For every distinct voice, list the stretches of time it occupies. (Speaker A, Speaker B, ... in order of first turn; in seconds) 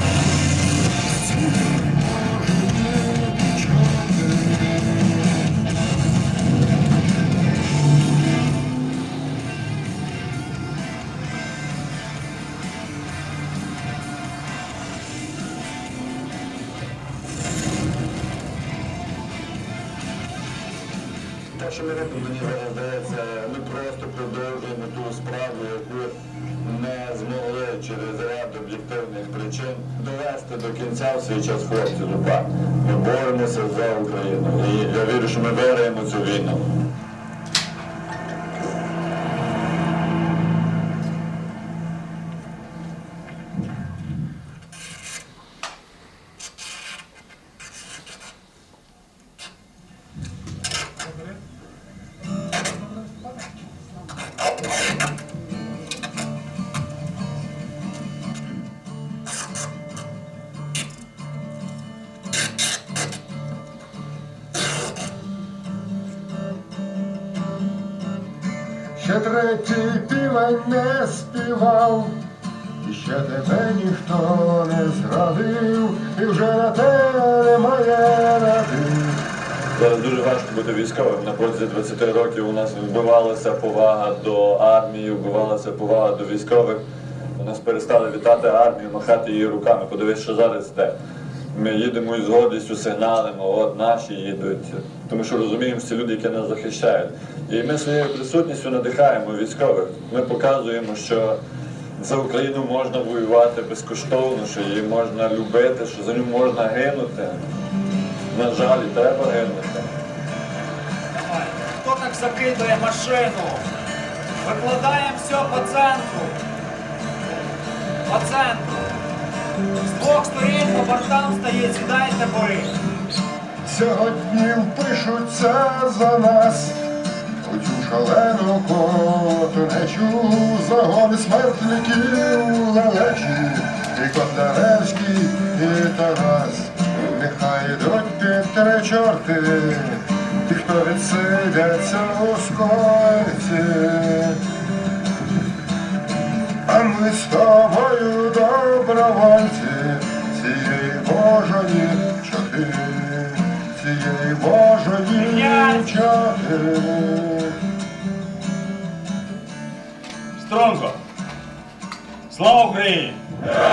Speaker A: 1.1-5.1, 69.0-72.2, 72.8-79.2, 123.6-126.8, 127.4-144.4, 146.7-157.6
Speaker B: 21.6-26.1, 26.6-36.7, 79.7-86.8, 87.4-91.0, 91.5-101.4, 102.0-107.4, 108.3-109.9
Speaker C: 111.2-113.6, 114.4-116.4, 118.1-118.8, 119.8-122.7, 155.2-155.9, 160.4-161.0, 162.3-163.2